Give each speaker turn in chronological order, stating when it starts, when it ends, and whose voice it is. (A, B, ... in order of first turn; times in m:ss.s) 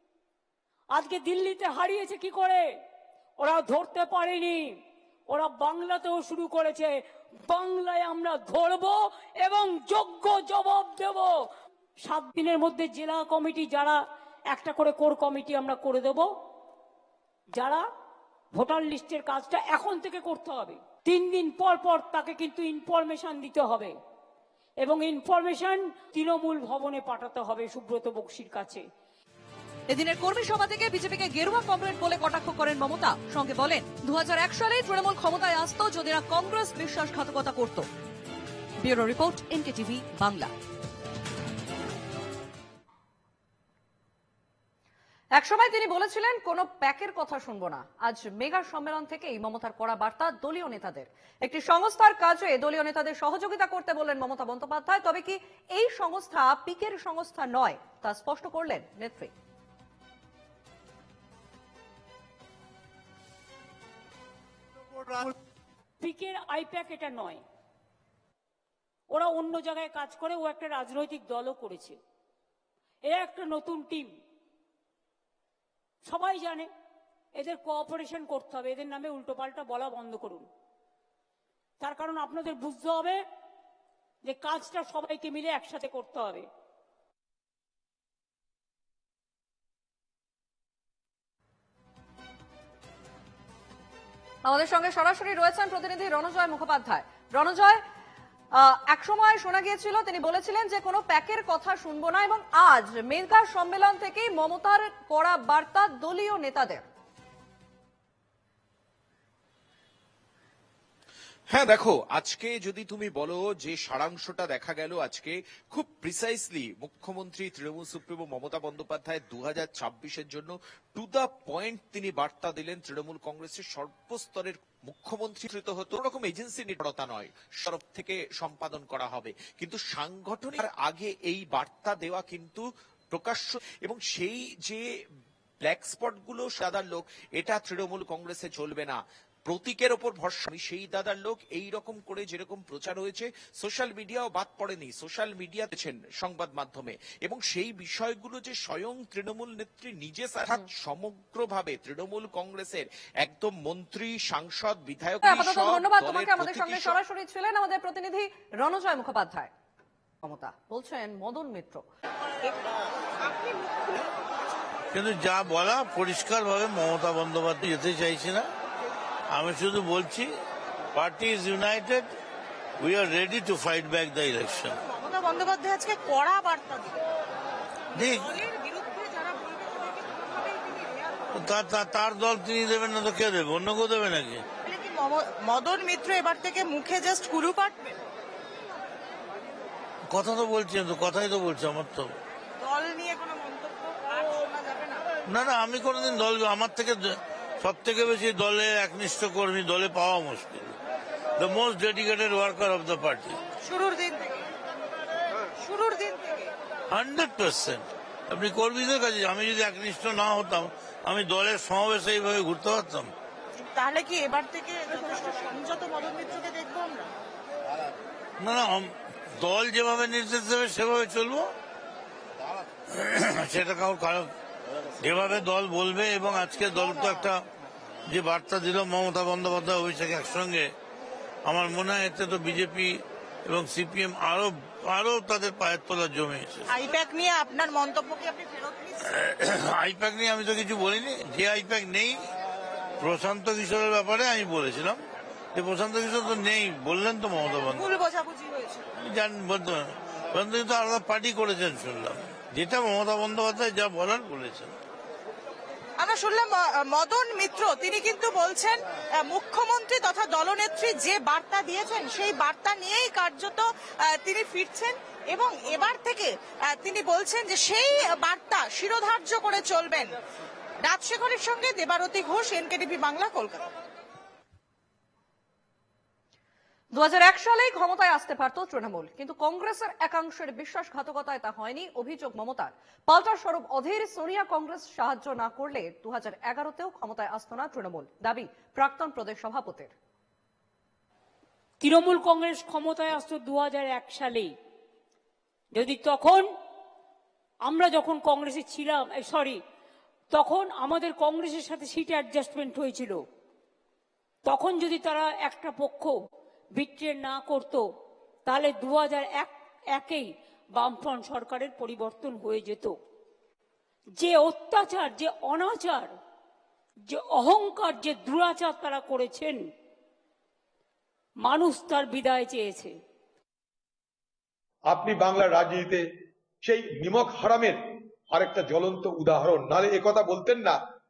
0:01.0-0:02.6 A
0:03.4-0:04.6 A
0:05.3-0:06.9 A
0:07.5-0:11.3 A
0:12.1-0:14.0 A
0:14.5-0:16.3 A
0:17.6-0:17.8 A
0:18.6-0:23.9 A
0:24.8-0:28.8 A
0:29.9-0:37.9 B
0:38.8-0:40.5 B
0:45.4-0:59.3 B
1:06.0-1:07.4 A
1:09.1-1:12.0 A
1:13.1-1:14.1 A
1:16.0-1:16.7 A
1:17.4-1:20.5 A
1:21.8-1:23.2 A
1:24.2-1:26.5 A
1:34.4-1:37.8 B
1:38.6-1:46.8 B
1:51.5-2:14.8 C
2:15.6-2:37.0 C
2:35.2-2:39.5 B
2:40.2-2:41.8 B
2:43.4-2:44.0 D
2:44.9-2:48.5 E
2:49.3-2:50.3 E
2:50.9-2:52.1 E
2:52.8-2:54.8 E
2:54.9-2:57.0 D
2:58.0-2:58.3 E
2:58.2-3:01.1 D
3:01.3-3:04.4 E
3:04.6-3:07.9 D
3:10.1-3:12.1 E
3:12.6-3:15.0 D
3:15.3-3:17.0 E
3:17.6-3:20.8 E
3:21.4-3:23.4 E
3:23.6-3:24.4 D
3:25.6-3:26.5 D
3:26.9-3:33.1 E
3:33.6-3:37.1 D
3:38.4-3:38.9 E
3:39.4-3:41.5 E
3:43.0-3:44.3 E
3:45.0-3:47.4 E
3:48.1-3:50.7 E
3:51.4-3:56.7 E
3:56.7-3:59.0 D
3:59.1-4:02.2 E
4:03.0-4:05.0 E
4:05.6-4:08.0 E
4:07.7-4:08.9 D
4:09.0-4:09.8 E
4:10.3-4:14.7 E
4:16.0-4:30.1 D
4:30.9-4:33.7 D
4:36.9-4:49.9 B
4:51.8-4:54.5 A
4:55.8-4:56.4 A
4:57.7-4:59.6 A
5:00.3-5:03.2 A
5:04.5-5:06.1 A
5:06.8-5:07.8 A
5:08.5-5:12.9 A
5:14.2-5:16.1 A
5:17.1-5:19.6 A
5:21.4-5:22.9 A
5:24.9-5:26.0 F
5:26.6-5:30.8 F